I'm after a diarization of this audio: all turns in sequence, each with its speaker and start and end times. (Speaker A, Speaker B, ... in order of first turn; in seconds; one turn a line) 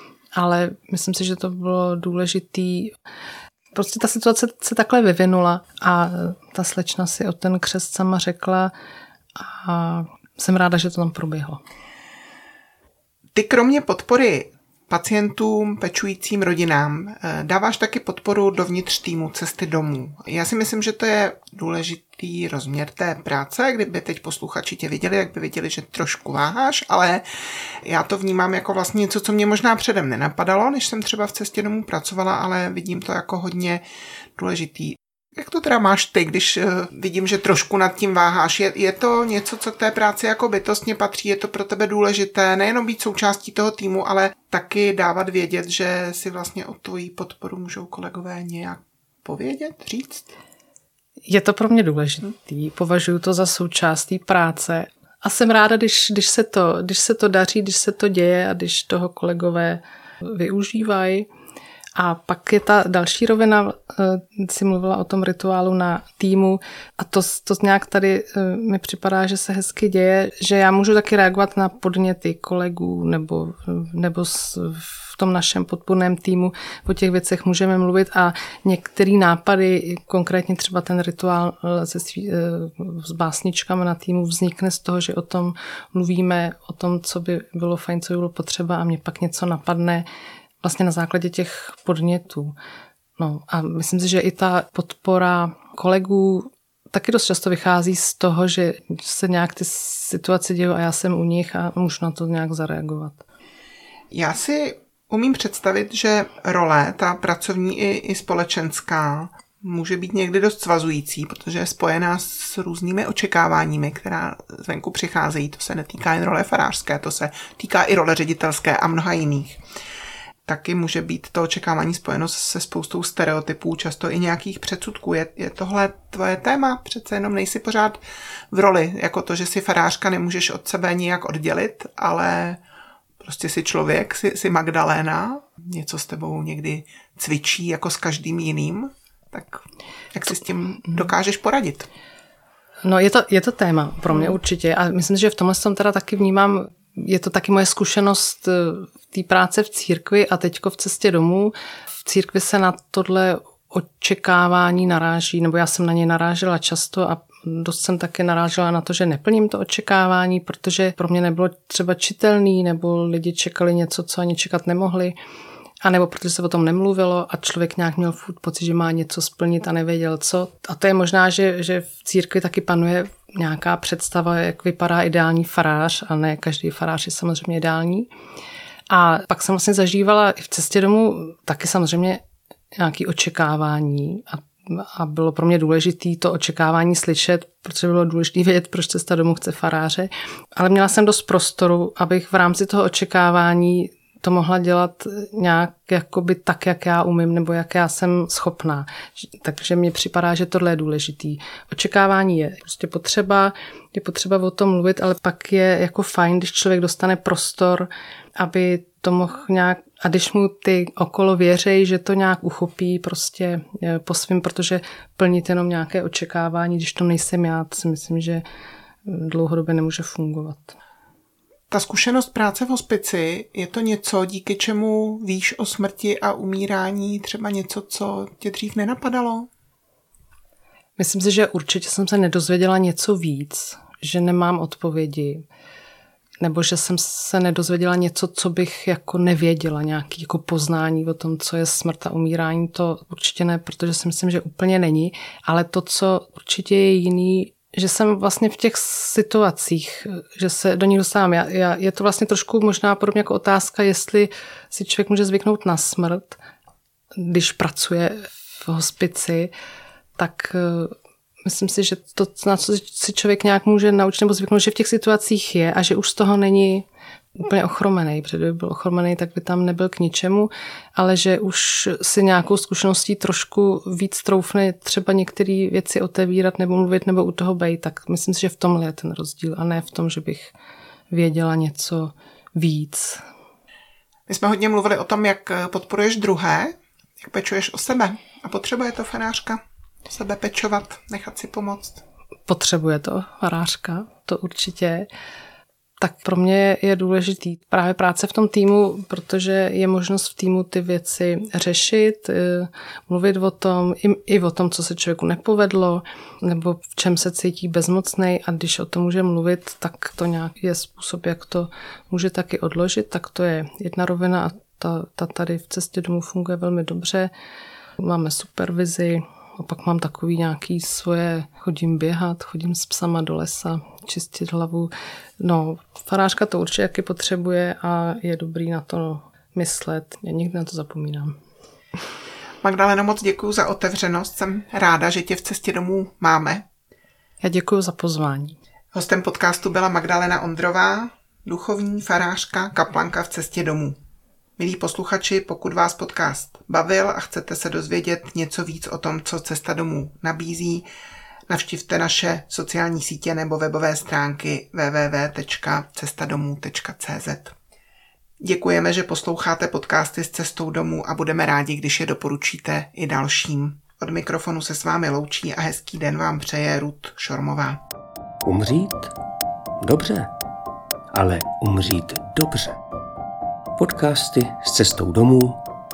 Speaker A: 0.4-2.9
Speaker A: 3.7-8.7
Speaker A: 9.4-11.6
Speaker B: 13.3-27.2
Speaker B: 27.8-33.8
Speaker B: 34.4-50.3
Speaker A: 51.3-61.3
Speaker A: 62.0-90.1
Speaker A: 90.6-92.5
Speaker A: 93.2-103.2
Speaker B: 104.1-119.6
Speaker B: 120.5-128.0
Speaker B: 128.5-132.6
Speaker B: 133.2-141.9
Speaker A: 142.8-165.2
Speaker B: 144.1-144.4
Speaker A: 165.8-178.1
Speaker A: 178.9-182.2
Speaker A: 182.8-218.4
Speaker A: 219.1-220.8
Speaker B: 221.7-229.5
Speaker A: 231.0-235.4
Speaker A: 236.4-256.4
Speaker A: 257.2-259.5
Speaker A: 260.2-260.9
Speaker A: 261.5-280.5
Speaker A: 281.1-283.2
Speaker B: 284.3-292.0
Speaker A: 292.5-295.1
Speaker A: 296.0-317.3
Speaker A: 318.0-331.4
Speaker B: 332.6-336.6
Speaker A: 337.4-338.6
Speaker B: 338.9-344.0
Speaker B: 344.6-350.9
Speaker B: 351.5-357.6
Speaker B: 358.4-367.8
Speaker C: 368.4-369.1
Speaker C: 369.8-370.3
Speaker C: 371.1-372.8
Speaker C: 373.8-375.6